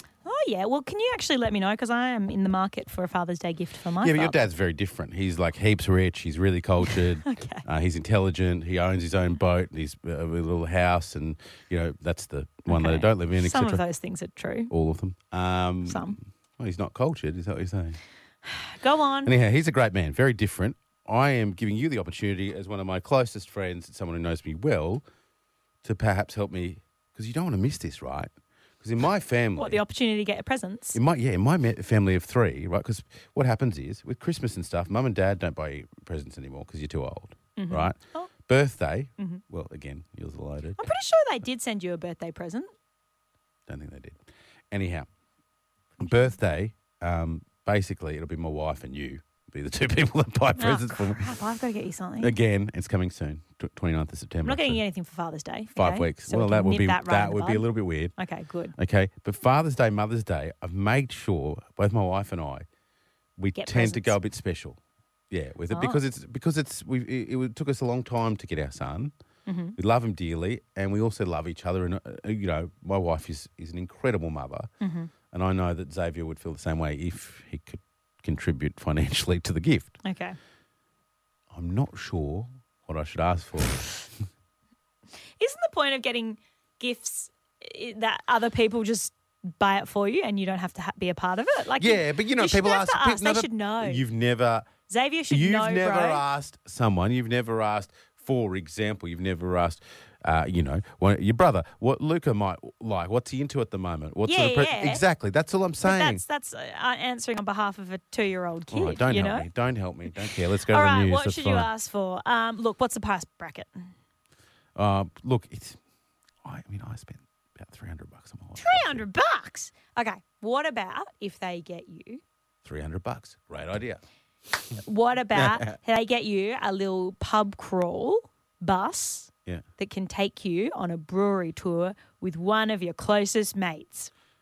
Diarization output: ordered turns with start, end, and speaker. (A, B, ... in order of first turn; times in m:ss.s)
0:00.2-0:04.4 A
0:04.0-0:13.8 B
0:06.8-0:07.6 A
0:12.7-0:14.7 A
0:14.7-0:18.0 B
0:15.8-0:16.2 A
0:18.4-0:19.3 A
0:19.2-0:25.0 B
0:25.8-0:28.3 B
0:28.8-0:29.8 B
0:29.6-0:31.0 A
0:30.9-0:38.0 B
0:37.6-0:38.3 A
0:38.5-0:40.9 B
0:40.8-0:42.7 A
0:43.7-0:45.1 B
0:46.0-0:51.3 B
0:50.6-0:52.3 A
0:52.2-0:54.8 B
0:54.4-0:58.7 A
0:55.7-0:58.1 B
0:58.8-1:02.6 B
1:03.4-1:04.8 B
1:03.6-1:04.2 A
1:05.3-1:09.1 B
1:05.7-1:06.0 A
1:09.4-1:09.8 A
1:09.8-1:14.7 B
1:14.8-1:15.1 A
1:15.3-1:20.0 B
1:20.0-1:20.4 A
1:21.5-1:23.9 B
1:25.4-1:34.0 A
1:31.8-1:34.7 B
1:34.9-1:36.2 A
1:35.3-1:46.2 B
1:44.2-1:45.0 A
1:45.8-1:49.5 A
1:48.7-1:51.7 B
1:50.7-1:53.9 A
1:54.8-1:55.8 B
1:56.4-1:59.0 B
1:58.6-2:02.2 A
2:02.6-2:04.0 B
2:04.7-2:14.1 A
2:05.3-2:05.7 B